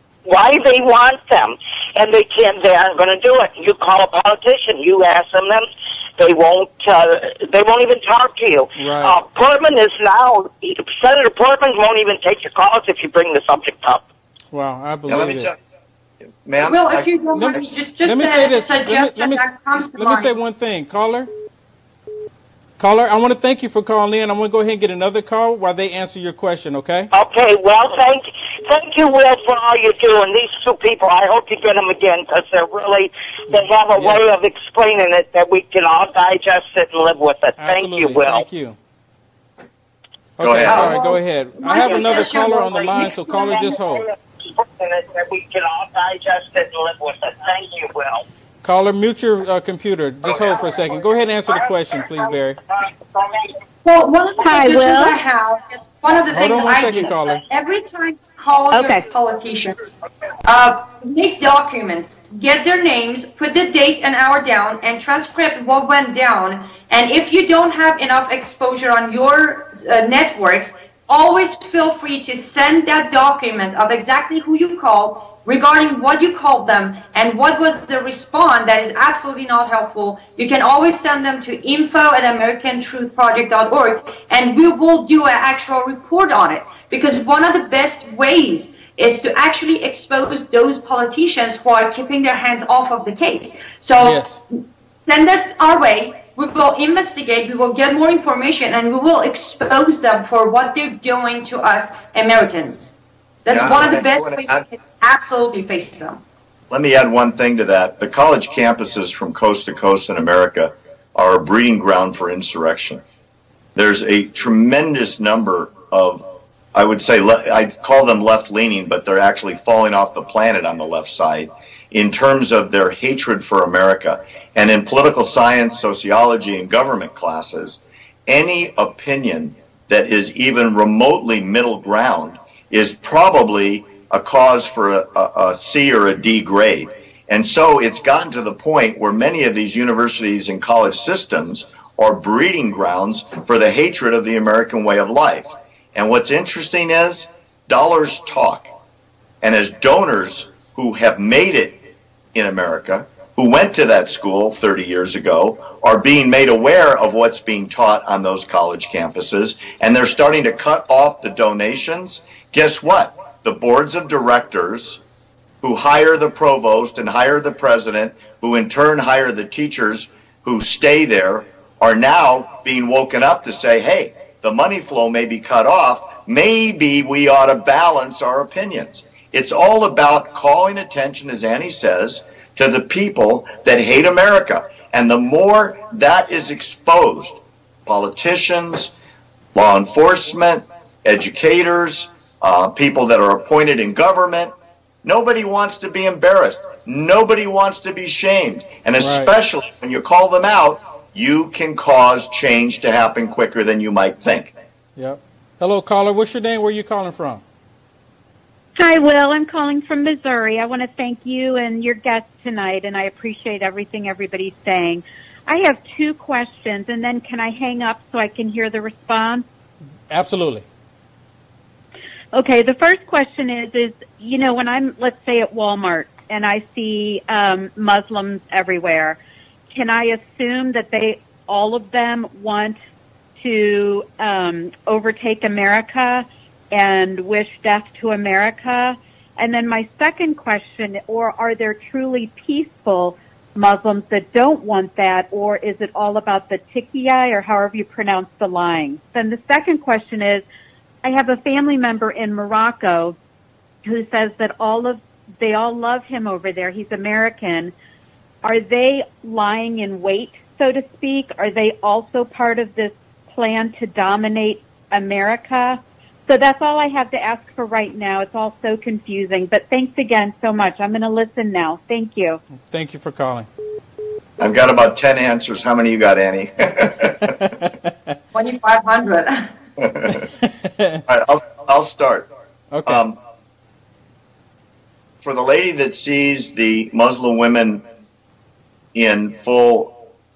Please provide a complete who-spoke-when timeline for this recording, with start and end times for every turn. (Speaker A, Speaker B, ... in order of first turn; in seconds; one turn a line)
Speaker A: 0.3-14.1
Speaker B: 8.8-9.2
Speaker B: 14.5-15.5
Speaker C: 15.1-15.6
Speaker C: 16.4-17.6
Speaker D: 16.6-20.3
Speaker B: 17.4-21.3
Speaker B: 22.8-27.1
Speaker A: 27.1-38.5
Speaker B: 33.5-34.2
Speaker B: 37.6-38.8
Speaker B: 40.4-44.0
Speaker C: 40.4-41.0
Speaker D: 40.6-43.8
Speaker A: 41.7-48.3
Speaker B: 48.6-52.6
Speaker A: 50.2-53.6
Speaker D: 53.9-59.8
Speaker E: 54.4-55.2
Speaker B: 56.3-57.4
Speaker E: 58.7-59.1
Speaker D: 60.5-102.9
Speaker B: 94.0-94.4
Speaker D: 103.5-106.2
Speaker C: 103.5-104.6
Speaker C: 106.7-113.0
Speaker C: 113.8-148.7
Speaker C: 149.4-151.8
Speaker C: 152.3-165.0
Speaker C: 165.6-188.9
Speaker C: 189.5-204.5
Speaker B: 199.0-199.3
Speaker B: 205.0-207.4
Speaker E: 208.8-219.5
Speaker B: 220.1-220.7
Speaker E: 222.3-229.2
Speaker E: 229.7-232.8
Speaker E: 233.4-250.4
Speaker E: 251.0-253.2
Speaker E: 253.8-257.7
Speaker E: 258.4-272.4
Speaker B: 272.7-273.5
Speaker C: 274.4-277.4
Speaker B: 277.2-278.1
Speaker D: 278.3-279.5
Speaker C: 279.8-280.3
Speaker B: 280.4-281.0
Speaker C: 281.1-282.3
Speaker B: 282.7-283.1
Speaker C: 282.9-283.2
Speaker C: 285.2-287.9
Speaker C: 288.9-289.9